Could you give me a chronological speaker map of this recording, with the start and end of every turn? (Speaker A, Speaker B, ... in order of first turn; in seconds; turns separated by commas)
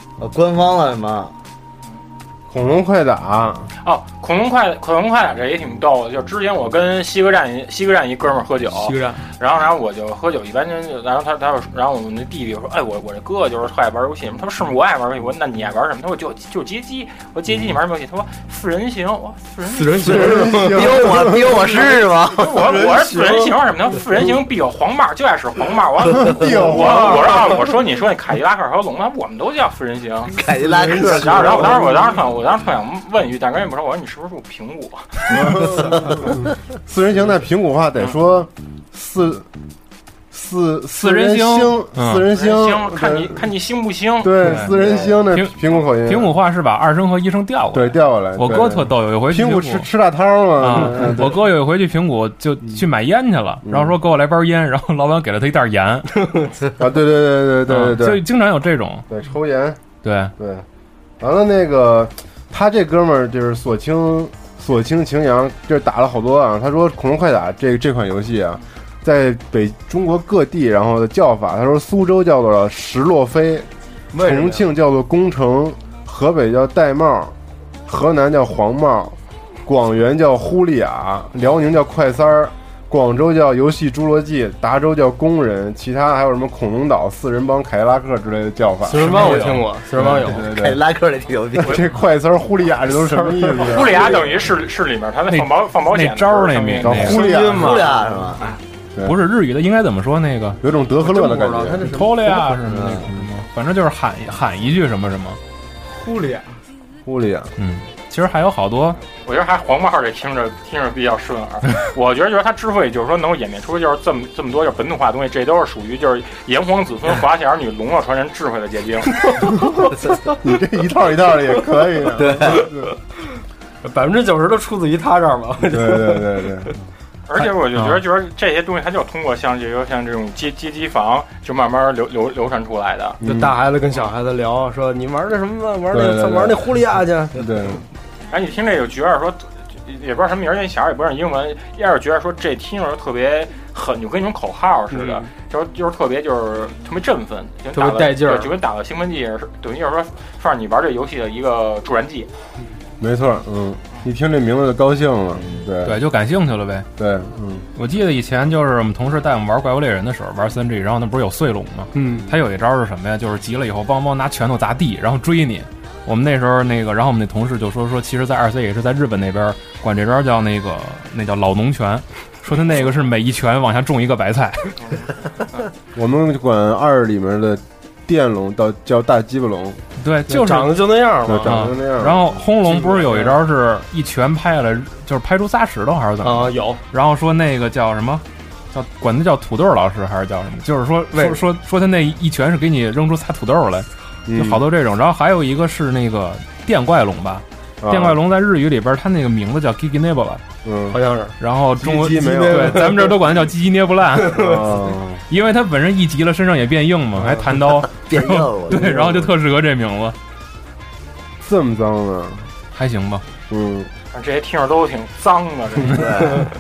Speaker A: 0.2-1.3, Speaker B: 2.5-3.7, Speaker C: 3.8-20.7, Speaker D: 19.6-21.0, Speaker B: 20.0-21.8, Speaker A: 20.6-22.8, Speaker C: 22.4-30.4, Speaker B: 26.2-27.5, Speaker A: 30.3-32.0, Speaker D: 30.8-31.9, Speaker C: 31.1-35.7, Speaker B: 35.3-36.3, Speaker B: 36.9-39.5, Speaker B: 40.3-43.4, Speaker E: 41.0-42.3, Speaker C: 42.3-44.5, Speaker B: 44.2-46.4, Speaker E: 44.4-44.7, Speaker E: 45.3-49.9, Speaker B: 47.7-51.4, Speaker E: 50.6-56.3, Speaker B: 53.7-54.0, Speaker B: 56.8-58.2, Speaker E: 57.7-59.1, Speaker B: 59.1-59.8, Speaker E: 60.0-60.3, Speaker B: 60.4-60.6, Speaker B: 61.2-77.3, Speaker D: 74.1-74.6, Speaker B: 77.9-90.8, Speaker D: 88.8-90.4, Speaker E: 89.0-89.6, Speaker A: 90.4-91.8, Speaker B: 91.6-94.2, Speaker D: 93.0-93.8, Speaker C: 93.6-97.0, Speaker E: 95.3-97.2, Speaker B: 96.8-97.8, Speaker D: 97.0-98.2, Speaker A: 97.3-98.6, Speaker E: 99.0-100.6, Speaker B: 100.6-101.9, Speaker D: 101.0-102.7, Speaker E: 101.9-105.4, Speaker A: 102.7-103.0, Speaker B: 102.8-103.1, Speaker D: 105.9-106.6, Speaker B: 107.0-107.5, Speaker E: 107.6-109.0, Speaker C: 109.2-119.2, Speaker D: 119.3-119.6, Speaker B: 120.4-122.9, Speaker A: 122.2-122.7, Speaker D: 122.5-122.7, Speaker D: 123.8-126.5, Speaker B: 125.7-126.8, Speaker C: 127.3-133.2, Speaker E: 127.8-128.0, Speaker B: 133.2-133.5, Speaker D: 133.2-137.4, Speaker B: 135.9-136.8, Speaker B: 137.3-137.8, Speaker C: 138.3-152.3, Speaker D: 144.9-145.3, Speaker D: 147.7-148.5, Speaker B: 153.0-156.0, Speaker E: 155.8-156.9, Speaker B: 157.0-157.7, Speaker E: 157.8-174.7, Speaker D: 161.9-162.3, Speaker C: 174.8-175.7, Speaker B: 175.9-179.8, Speaker E: 180.0-180.8, Speaker D: 180.3-181.6, Speaker B: 181.3-182.4, Speaker E: 181.5-200.4, Speaker D: 182.6-183.4, Speaker D: 186.2-186.8, Speaker D: 191.1-191.4, Speaker B: 194.3-194.6, Speaker B: 197.8-198.2, Speaker B: 200.6-201.0, Speaker D: 200.9-201.4, Speaker E: 201.4-204.4, Speaker B: 201.8-203.0, Speaker D: 202.2-203.1, Speaker D: 204.2-204.6, Speaker B: 204.3-205.2, Speaker E: 205.3-210.2, Speaker A: 208.1-209.3, Speaker B: 211.4-212.5, Speaker E: 212.7-213.2, Speaker B: 213.5-213.9, Speaker C: 214.1-216.5, Speaker A: 215.9-216.5